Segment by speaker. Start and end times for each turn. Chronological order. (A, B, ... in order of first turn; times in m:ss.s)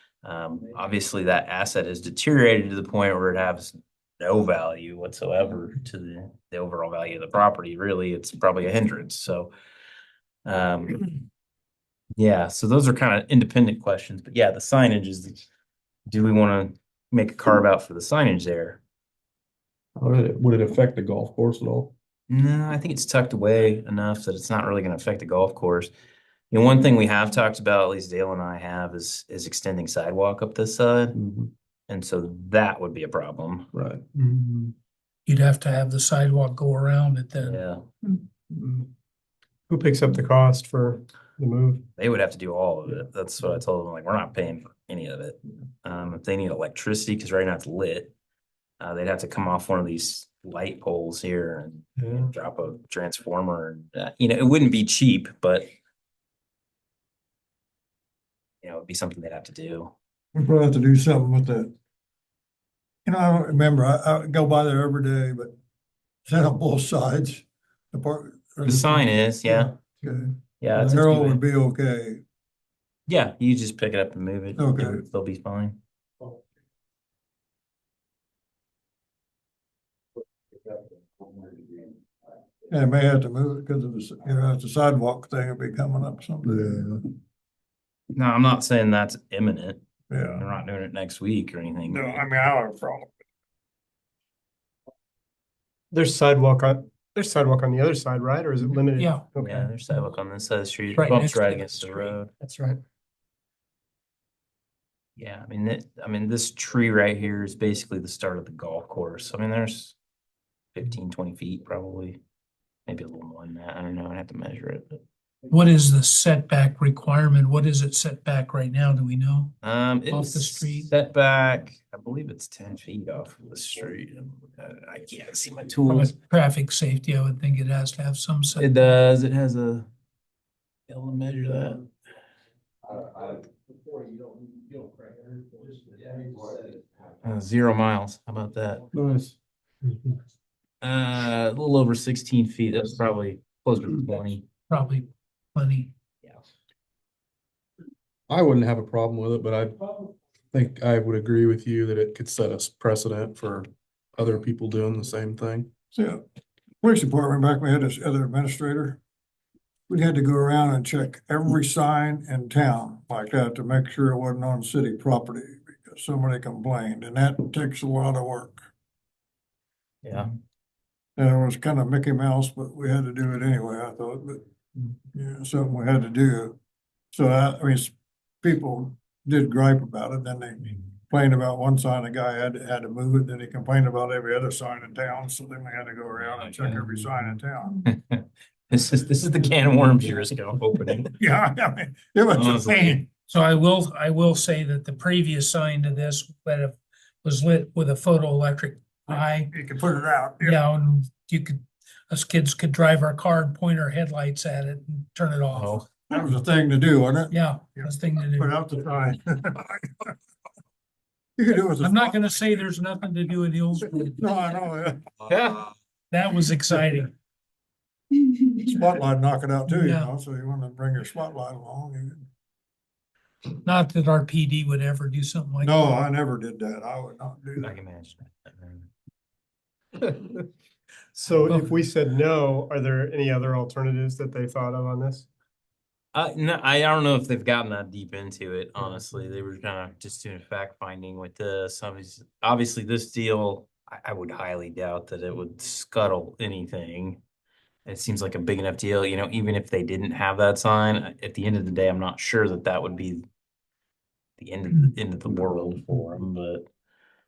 0:00.2-0:09.5 A
0:10.4-0:11.1 A
0:12.2-0:15.4 A
0:16.1-0:18.8 A
0:20.0-0:21.9 B
0:22.3-0:25.9 A
0:26.5-0:31.2 A
0:31.2-0:31.5 B
0:31.9-0:33.7 A
0:33.7-0:34.0 B
0:34.2-0:34.7 C
0:35.3-0:37.6 D
0:37.4-0:37.8 A
0:38.2-0:38.8 C
0:39.7-0:41.8 C
0:42.0-0:48.1 A
0:48.8-0:55.7 A
0:58.6-0:59.9 A
1:00.4-1:01.7 E
1:03.1-1:05.5 E
1:06.3-1:12.2 E
1:08.6-1:09.7 A
1:10.6-1:11.4 A
1:13.1-1:15.8 A
1:14.6-1:15.0 E
1:22.7-1:27.1 E
1:28.1-1:32.2 A
1:30.1-1:30.5 E
1:31.9-1:33.1 E
1:35.9-1:39.7 C
1:39.0-1:39.2 D
1:39.4-1:42.3 A
1:40.9-1:42.2 D
1:42.4-1:42.8 C
1:45.2-1:50.0 A
1:50.8-1:52.2 A
1:52.9-1:55.0 A
1:55.5-1:59.6 D
1:59.6-2:06.1 A
2:00.1-2:00.9 D
2:05.9-2:08.9 D
2:08.6-2:09.9 A
2:10.9-2:11.8 A
2:17.2-2:18.8 A
2:18.9-2:19.4 B
2:20.8-2:24.5 A
2:24.7-2:25.9 D
2:28.3-2:35.7 B
2:35.9-2:36.2 E
2:36.8-2:39.0 E
2:39.9-2:48.6 E
2:50.0-2:50.3 A
2:51.2-2:54.4 E
2:55.1-2:56.6 E
2:57.1-3:07.9 E
3:07.8-3:11.2 A
3:11.2-3:13.0 E
3:12.3-3:13.0 A
3:13.3-3:19.5 D
3:19.5-3:20.6 E
3:20.4-3:25.9 D
3:25.5-3:25.8 A
3:26.1-3:30.1 E
3:27.3-3:28.5 D
3:31.4-3:32.4 E
3:31.8-3:34.2 D
3:34.2-3:35.3 E
3:36.1-3:37.1 D
3:38.6-3:42.2 E
3:39.7-3:40.1 D
3:43.6-3:45.8 D
3:45.6-3:47.8 E
3:47.6-3:48.9 A
3:50.0-3:50.4 C
3:51.2-3:55.3 C
3:56.1-4:07.2 A
4:07.9-4:13.2 A
4:14.4-4:16.7 A